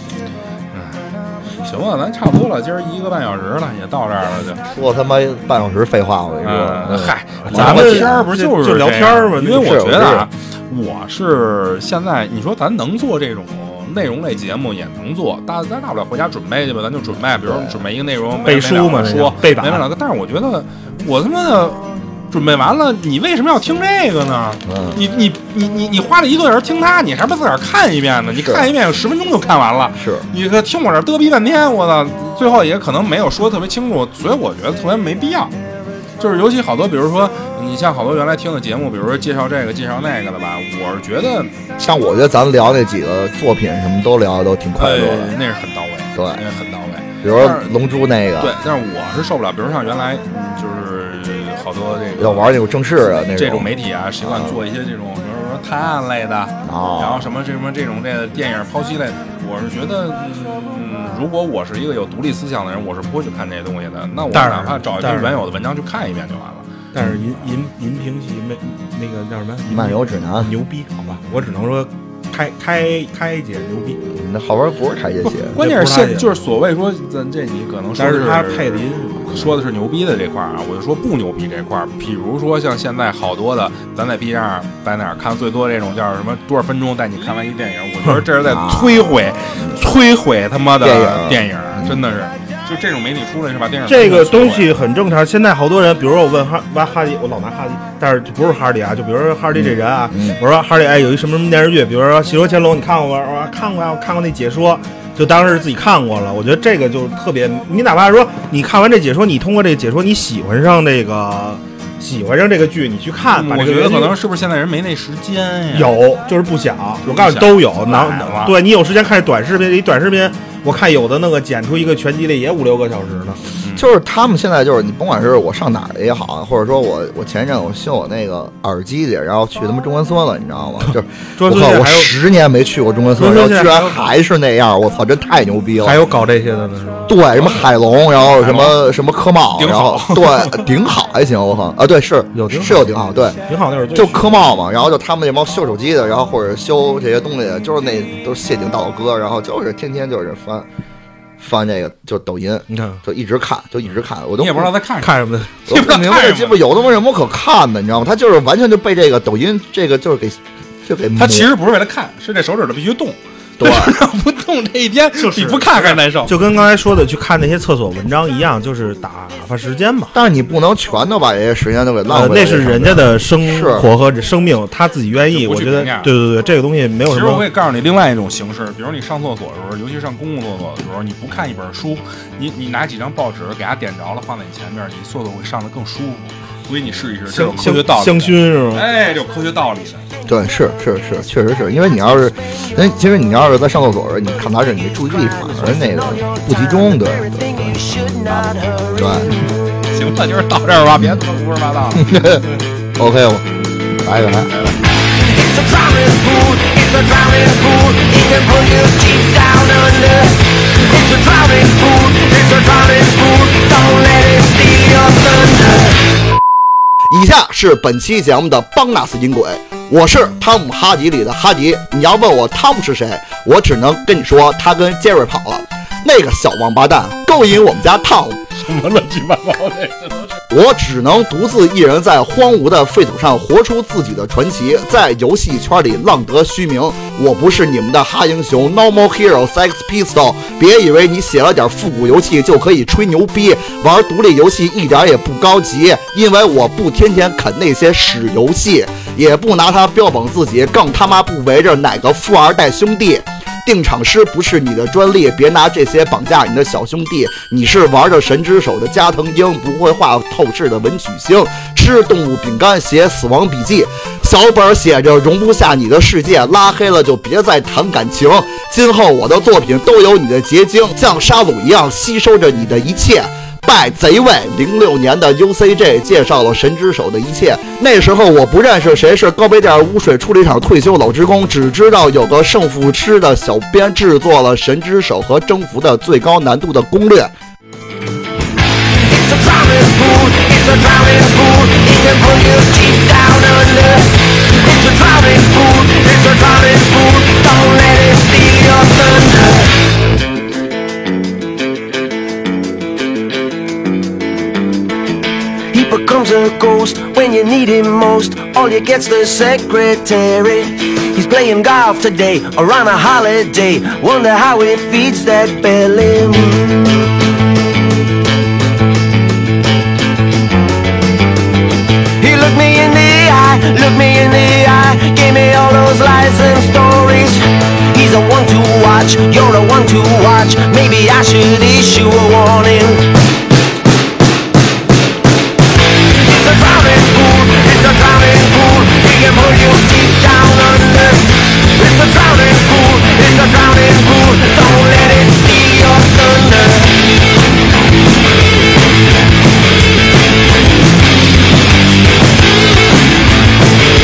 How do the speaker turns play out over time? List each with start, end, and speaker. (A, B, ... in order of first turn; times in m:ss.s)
0:00.7-0:01.0 A
0:01.6-0:04.6 A
0:04.7-0:08.3 B
0:06.4-0:35.5 A
0:07.4-0:09.8 C
0:09.5-0:10.3 B
0:17.4-0:17.8 B
0:18.4-0:19.8 C
0:24.6-0:25.0 B
0:28.3-0:28.7 B
0:29.9-0:30.2 B
0:36.2-0:41.7 A
0:41.8-0:45.3 B
0:44.8-0:47.8 A
0:46.2-0:46.4 B
0:47.2-0:48.5 B
0:48.4-0:52.5 A
0:52.2-0:53.7 B
0:53.2-1:06.7 A
0:54.2-0:54.6 B
0:56.6-0:57.3 B
1:04.3-1:05.4 C
1:06.9-1:14.0 C
1:09.7-1:10.5 B
1:14.0-1:15.6 B
1:15.3-1:34.7 A
1:15.6-1:16.3 C
1:18.0-1:19.4 C
1:28.4-1:29.8 B
1:30.8-1:32.0 B
1:33.9-1:54.1 C
1:39.5-1:40.4 B
1:53.3-1:56.0 A
1:55.7-2:03.5 C
1:57.0-1:58.6 A
2:03.6-2:03.8 A
2:03.8-2:16.0 B
2:11.4-2:12.1 C
2:13.2-2:14.0 C
2:15.8-2:17.2 C
2:17.1-2:23.4 B
2:17.4-2:17.7 A
2:18.3-2:18.8 A
2:19.6-2:20.6 A
2:22.3-2:24.3 C
2:23.9-2:30.7 B
2:31.4-2:34.7 B
2:32.7-2:33.0 C
2:34.4-2:36.7 A
2:35.0-2:35.5 C
2:35.7-2:41.5 B
2:41.1-2:46.3 A
2:43.6-2:43.9 B
2:45.2-2:50.1 C
2:50.1-2:53.9 B
2:52.1-2:57.4 C
2:55.2-2:56.1 A
2:57.1-3:10.0 A
3:07.3-3:08.8 C
3:10.2-3:17.8 B
3:15.4-3:19.5 D
3:18.9-3:19.3 B
3:19.9-3:22.2 A
3:20.9-3:21.2 B
3:21.9-3:22.4 B
3:23.0-3:24.5 B
3:24.5-3:24.8 A
3:25.1-3:36.1 D
3:37.1-3:48.4 B
3:48.6-3:50.4 A
3:50.5-4:47.3 B
4:48.9-4:59.8 D
5:05.7-5:17.0 D
5:22.2-5:33.1 D
5:36.1-5:47.2 D